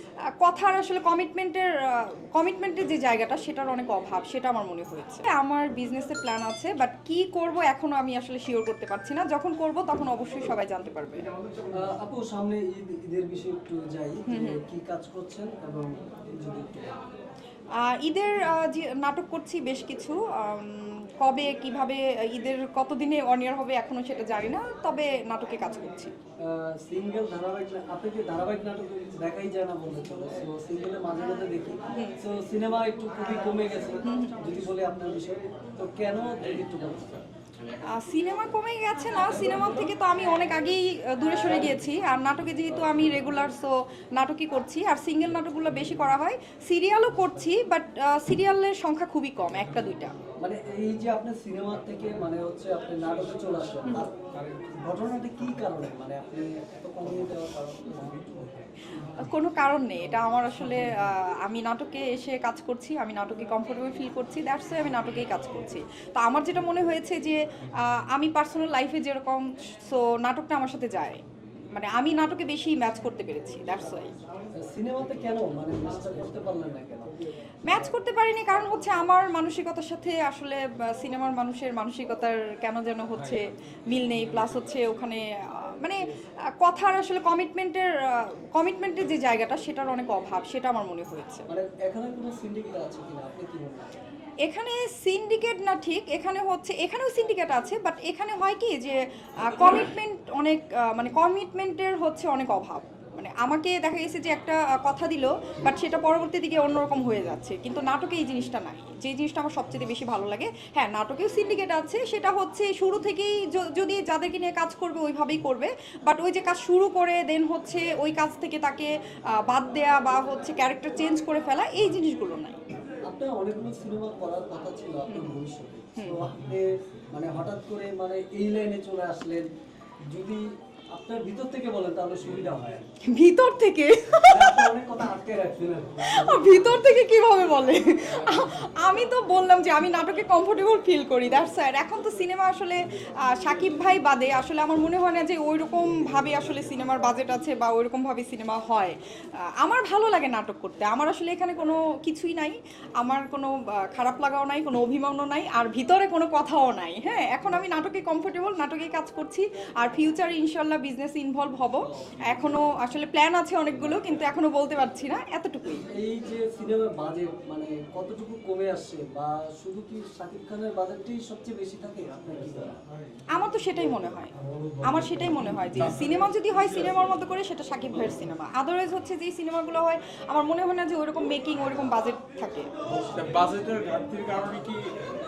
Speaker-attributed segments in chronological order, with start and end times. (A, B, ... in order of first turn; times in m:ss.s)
0:00.4-0:11.3 A
0:11.7-0:17.0 B
0:14.3-0:14.6 A
0:17.8-0:26.1 A
0:26.4-0:37.2 B
0:34.0-0:34.4 A
0:37.9-0:50.1 A
0:39.2-0:39.9 B
0:50.4-0:54.2 B
0:54.8-0:58.5 B
0:59.0-1:11.2 A
1:11.7-1:14.1 A
1:14.6-1:17.1 B
1:17.7-1:26.0 A
1:26.6-1:31.4 A
1:31.5-1:33.9 B
1:34.4-1:58.9 A
1:59.4-2:02.6 A
2:03.1-2:09.5 B
2:05.1-2:05.4 A
2:10.1-2:12.9 B
2:13.0-2:14.7 A
2:14.3-2:16.6 B
2:16.1-2:29.0 A
2:18.0-2:18.6 C
2:29.6-2:45.9 A
2:42.0-2:42.4 B
2:45.8-2:52.8 B
2:53.3-2:54.3 A
2:54.8-3:02.7 A
3:02.9-3:04.9 C